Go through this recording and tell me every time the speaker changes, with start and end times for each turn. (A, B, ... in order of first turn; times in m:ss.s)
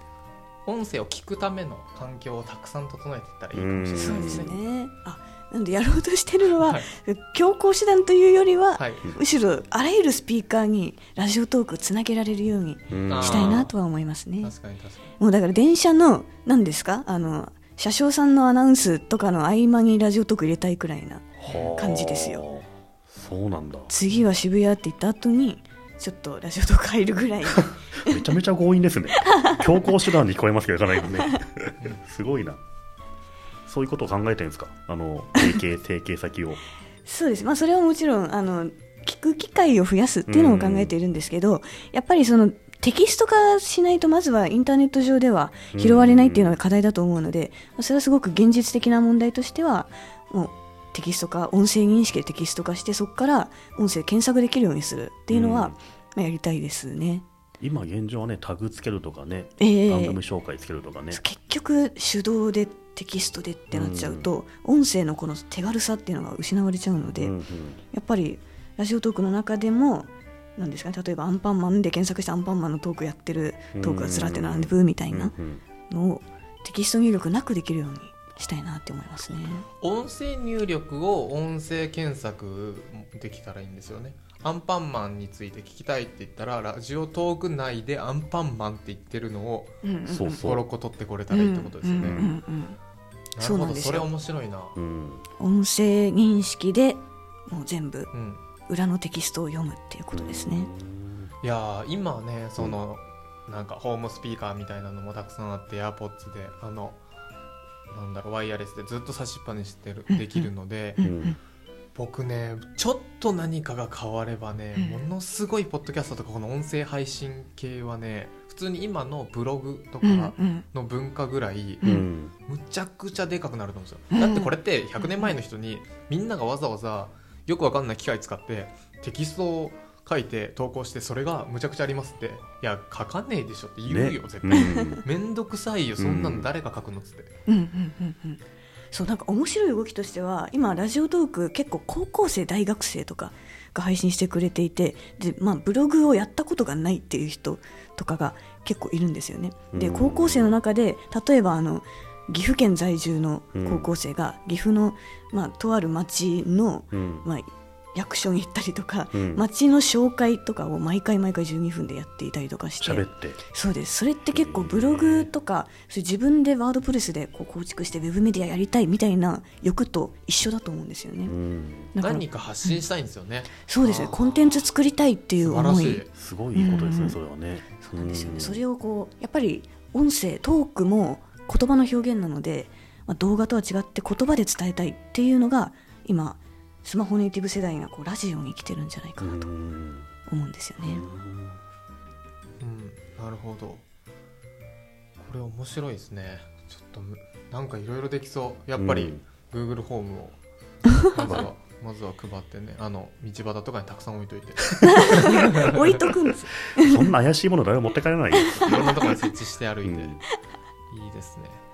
0:00.7-0:04.5 A
0:03.5-0:04.6 B
0:04.0-0:14.5 C
0:06.6-0:06.9 A
0:08.8-0:09.1 A
0:12.9-0:13.7 B
0:13.1-0:13.7 A
0:14.4-0:15.1 A
0:15.2-0:22.4 C
0:21.4-0:23.9 B
0:21.5-0:21.7 A
0:23.9-0:28.3 C
0:28.1-0:32.6 B
0:29.2-0:29.9 C
0:33.7-0:36.6 B
0:37.1-0:57.2 C
0:40.3-0:41.0 B
0:45.7-0:46.6 B
0:55.3-0:55.8 B
0:57.6-1:01.2 B
0:59.6-1:00.2 C
1:01.1-1:07.4 C
1:03.7-1:04.3 B
1:07.2-1:07.8 B
1:07.9-1:15.3 C
1:13.8-1:15.6 B
1:15.9-1:19.7 C
1:19.8-1:29.7 A
1:29.8-1:30.5 C
1:30.1-1:30.6 B
1:30.3-1:32.2 A
1:31.3-1:32.8 C
1:32.0-1:32.4 B
1:33.4-1:34.8 A
1:33.4-1:34.1 C
1:34.8-1:35.3 B
1:35.4-1:38.1 C
1:38.1-1:38.4 A
1:38.7-1:40.7 C
1:40.1-1:41.3 B
1:41.4-1:47.0 A
1:47.9-1:51.0 A
1:51.0-1:51.4 C
1:51.0-1:51.4 B
1:51.9-2:01.9 A
1:54.8-1:55.0 C
2:00.0-2:00.6 C
2:01.8-2:02.3 B
2:02.5-2:17.3 A
2:04.1-2:04.5 C
2:05.0-2:05.3 C
2:13.9-2:15.0 B
2:14.5-2:15.0 C
2:16.0-2:16.5 B
2:17.5-2:18.4 C
2:18.9-2:51.3 C
2:29.7-2:30.6 B
2:33.6-2:33.9 B
2:36.9-2:37.3 B
2:39.1-2:39.4 B
2:42.8-2:43.4 B
2:44.3-2:45.3 B
2:51.2-2:51.9 B
2:51.9-2:52.8 C
2:52.0-2:54.3 A
2:53.7-2:57.2 C
2:55.4-2:56.1 A
2:56.1-2:58.6 B
2:57.8-3:09.5 C
3:09.2-3:10.1 B
3:10.3-3:11.0 C
3:10.8-3:11.6 B
3:12.6-3:13.8 A
3:15.2-3:20.4 A
3:18.8-3:19.2 B
3:21.0-3:25.8 A
3:24.8-3:27.1 C
3:26.8-3:28.8 B
3:28.3-3:29.2 C
3:28.4-3:30.2 A
3:29.8-3:30.2 B
3:30.9-3:31.6 A